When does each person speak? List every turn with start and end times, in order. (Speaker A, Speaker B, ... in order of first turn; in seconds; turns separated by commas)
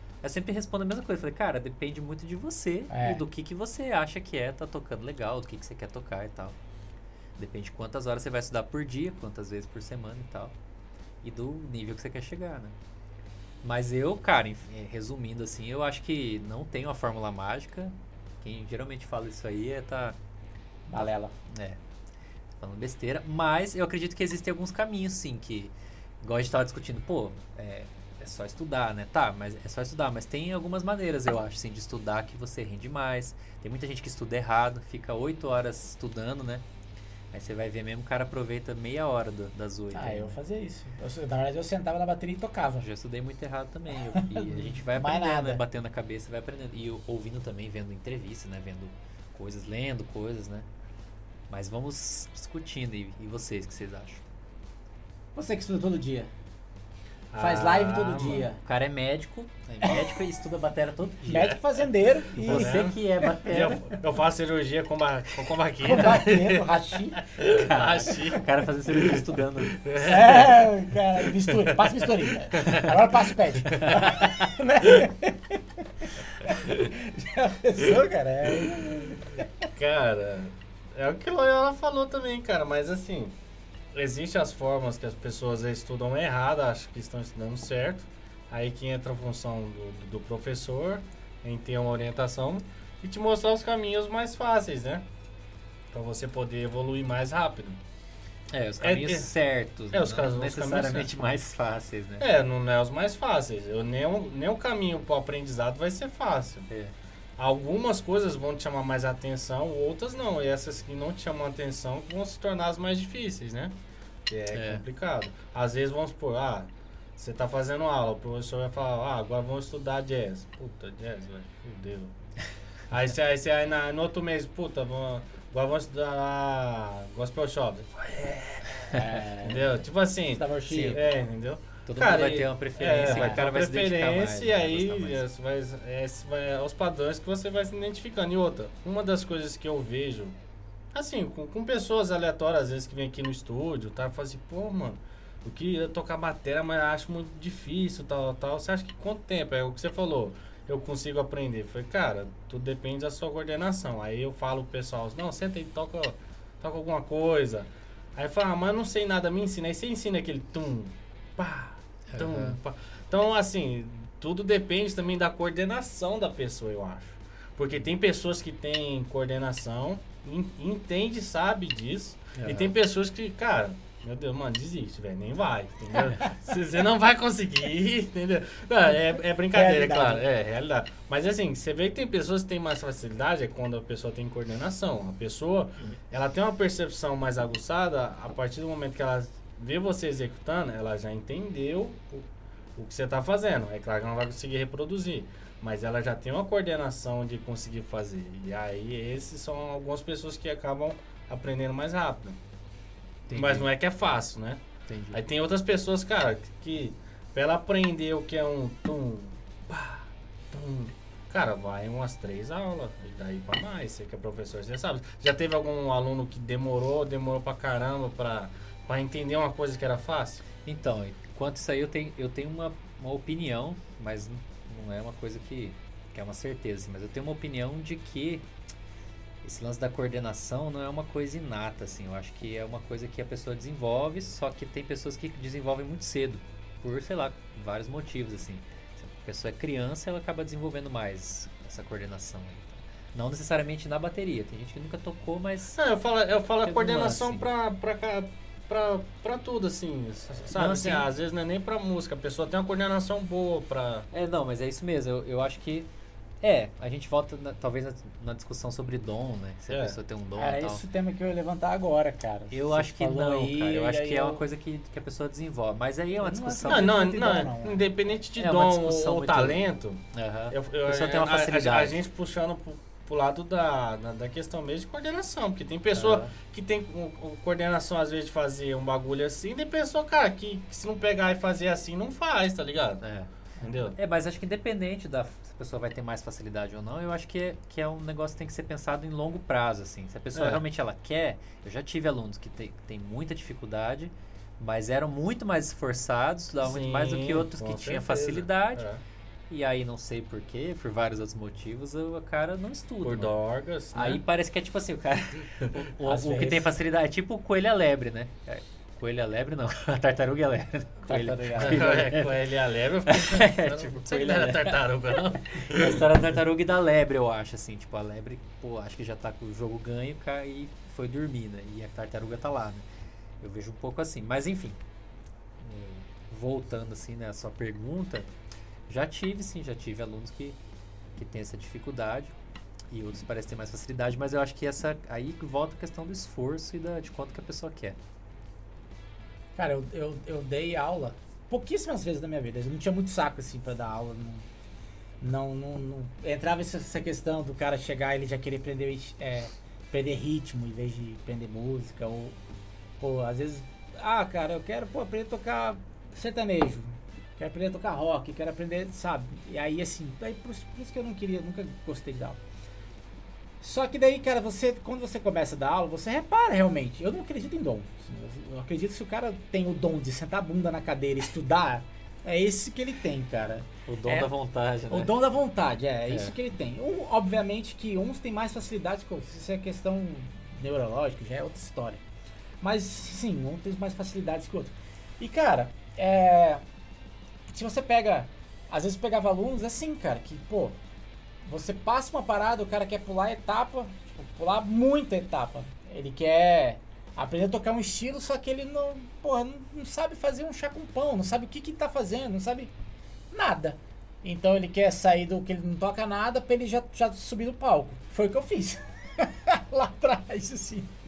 Speaker A: 0.2-6.5, Speaker B: 2.9-3.2, Speaker A: 7.4-10.5, Speaker A: 11.2-12.7, Speaker A: 13.6-20.1, Speaker B: 20.9-21.3, Speaker A: 20.9-21.8, Speaker A: 22.6-36.6, Speaker A: 37.3-40.4, Speaker B: 39.9-42.8, Speaker A: 42.8-50.6, Speaker B: 44.4-45.6, Speaker A: 51.5-54.2, Speaker B: 55.3-56.3, Speaker C: 57.3-58.5, Speaker B: 57.4-58.6, Speaker A: 58.6-61.6, Speaker B: 61.3-62.8, Speaker A: 62.4-63.8, Speaker C: 62.4-69.2, Speaker B: 65.8-67.2, Speaker A: 67.5-69.9, Speaker C: 69.7-70.5, Speaker B: 70.0-79.5, Speaker A: 73.9-74.4, Speaker C: 79.7-83.3, Speaker C: 83.9-95.0, Speaker C: 95.9-97.8, Speaker A: 98.5-102.2, Speaker C: 98.8-99.3, Speaker C: 99.9-101.1, Speaker C: 102.2-106.7, Speaker C: 107.4-113.8, Speaker C: 114.3-122.1, Speaker A: 114.5-114.8, Speaker C: 122.9-140.4, Speaker B: 128.9-131.0, Speaker A: 130.7-131.0, Speaker A: 131.8-135.2, Speaker B: 133.0-133.4, Speaker C: 140.9-202.4, Speaker A: 162.1-162.6, Speaker A: 172.3-172.7, Speaker B: 179.5-180.2, Speaker A: 203.3-203.7, Speaker C: 203.3-204.6, Speaker A: 204.9-205.2, Speaker C: 205.1-220.4, Speaker A: 220.6-228.4, Speaker A: 229.4-245.8, Speaker C: 245.7-254.1, Speaker A: 246.6-247.4, Speaker A: 250.5-251.1, Speaker A: 254.1-255.9, Speaker A: 256.4-260.8, Speaker C: 259.7-260.0, Speaker B: 260.4-264.4, Speaker A: 262.5-266.9, Speaker B: 266.2-267.8, Speaker C: 266.7-283.0, Speaker A: 268.4-269.6, Speaker A: 270.1-272.0, Speaker A: 275.9-276.3, Speaker A: 283.0-283.3, Speaker C: 283.6-284.0, Speaker A: 284.0-298.9, Speaker C: 290.3-290.6, Speaker C: 296.6-299.0, Speaker A: 299.5-303.3, Speaker C: 303.0-304.2, Speaker A: 303.9-312.4, Speaker B: 306.0-306.7, Speaker B: 311.1-311.9, Speaker C: 311.6-316.0, Speaker A: 313.1-322.8, Speaker A: 323.4-324.8, Speaker A: 325.6-328.3, Speaker A: 328.9-330.6, Speaker A: 331.2-332.3, Speaker A: 332.9-337.9, Speaker B: 339.6-344.4, Speaker B: 345.2-352.4, Speaker B: 353.0-362.4, Speaker B: 363.6-374.3, Speaker A: 373.9-375.1, Speaker B: 374.9-382.0, Speaker B: 382.6-386.6, Speaker B: 387.5-390.8, Speaker B: 391.4-402.7, Speaker B: 403.3-410.9